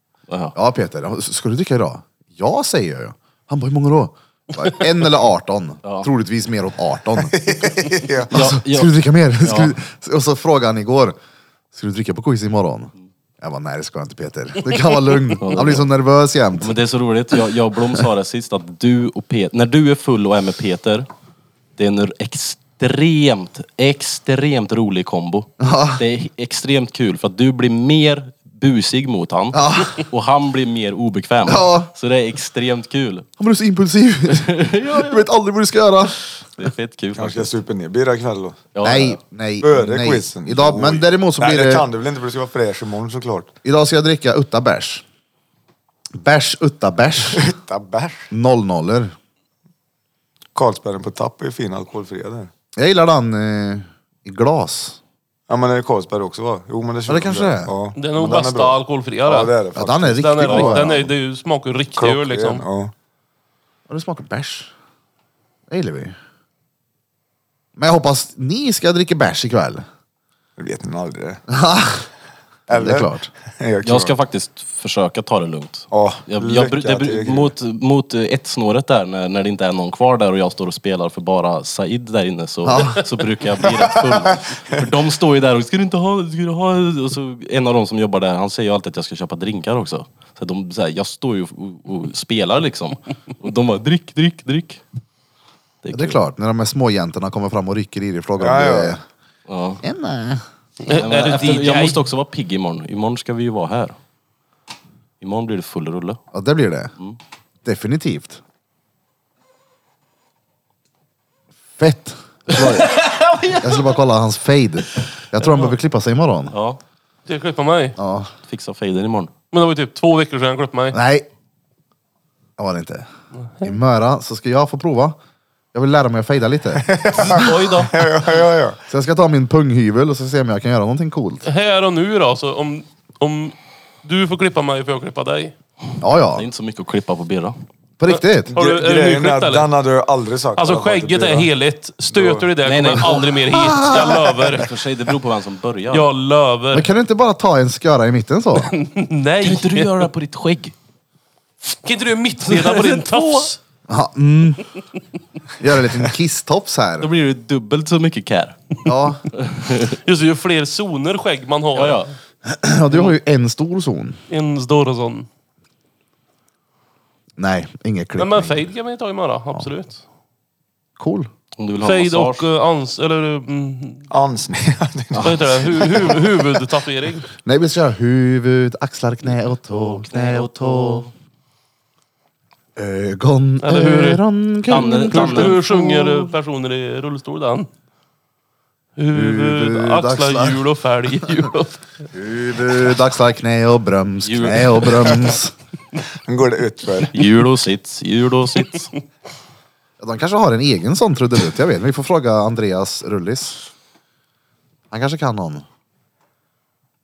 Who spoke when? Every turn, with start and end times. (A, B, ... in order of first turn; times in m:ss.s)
0:00.3-0:00.5 A
0:00.5-0:07.4 B
0:07.2-0:08.3 C
0:08.3-0:09.7 A
0:08.3-0:11.2 B
0:11.7-0:16.8 B
0:15.4-0:15.9 A
0:16.6-0:21.1 A
0:21.8-0:33.2 A
0:25.6-0:26.0 B
0:29.5-0:30.0 B
0:31.4-0:31.9 B
0:33.4-0:36.2 B
0:34.4-0:35.2 A
0:36.6-0:37.5 A
0:37.2-0:38.6 C
0:38.7-0:39.2 A
0:38.8-0:41.9 B
0:39.6-0:43.5 C
0:43.6-0:45.0 B
0:46.1-0:47.5 B
0:47.3-0:48.3 C
0:48.3-0:49.1 B
0:50.5-0:52.5 C
0:52.8-0:55.0 B
0:55.5-1:01.0 C
0:57.1-0:58.4 B
0:58.0-0:59.5 D
0:59.7-1:01.1 B
1:00.2-1:02.6 D
1:02.0-1:02.9 C
1:03.9-1:04.7 B
1:05.7-1:06.1 B
1:07.8-1:09.8 B
1:10.6-1:11.4 C
1:11.5-1:12.1 B
1:12.7-1:13.3 B
1:12.7-1:14.1 C
1:13.8-1:34.8 A
1:15.9-1:17.5 C
1:22.6-1:23.0 B
1:35.8-1:36.2 A
1:35.9-1:39.0 B
1:38.4-1:39.0 C
1:39.5-1:39.8 A
1:39.8-1:40.4 B
1:40.8-1:42.0 D
1:40.9-1:44.0 A
1:45.2-1:46.2 A
1:46.3-1:46.9 B
1:47.6-1:48.4 B
1:51.8-1:53.1 B
1:52.5-1:54.0 A
1:53.6-1:56.5 B
1:56.5-1:56.8 A
1:57.3-1:58.0 D
1:58.0-1:58.3 B
1:58.4-1:59.3 A
1:59.5-2:01.0 D
2:00.9-2:01.3 B
2:02.6-2:03.1 B
2:03.6-2:05.2 B
2:05.7-2:06.8 B
2:06.8-2:08.8 C
2:07.2-2:08.1 A
2:08.9-2:11.4 B
2:11.4-2:15.5 D
2:16.0-2:16.4 B
2:16.3-2:17.6 A
2:18.0-2:18.5 B
2:18.1-2:19.7 D
2:18.5-2:21.5 C
2:20.6-2:24.7 D
2:22.1-2:22.4 C
2:22.6-2:23.5 A
2:23.5-2:24.2 B
2:24.5-2:26.1 A
2:25.9-2:26.9 D
2:26.7-2:28.7 B
2:28.6-2:30.1 D
2:29.4-2:30.7 A
2:31.7-2:33.6 D
2:32.4-2:33.5 A
2:33.9-2:34.6 B
2:35.6-2:37.1 B
2:37.0-2:38.6 A
2:38.8-2:39.2 B
2:39.4-2:40.0 A
2:40.0-2:42.1 D
2:41.7-2:42.1 A
2:42.4-2:44.2 B
2:44.3-2:45.3 D
2:47.4-2:48.7 B
2:48.2-2:50.0 D
2:51.0-2:51.3 B
2:51.6-2:52.4 A
2:51.8-2:54.0 D
2:54.1-2:56.2 C
2:55.1-2:55.5 A
2:55.2-2:57.3 D
2:57.4-3:01.1 B
2:59.8-3:01.1 A
3:02.8-3:06.3 B
3:03.6-3:07.7 D
3:04.7-3:05.6 A
3:09.0-3:11.8 D
3:09.1-3:10.6 B
3:12.1-3:15.5 B
3:14.2-3:15.1 A
3:16.2-3:17.1 C
3:17.1-3:18.9 A
3:20.0-3:23.6 B
3:24.9-3:25.6 B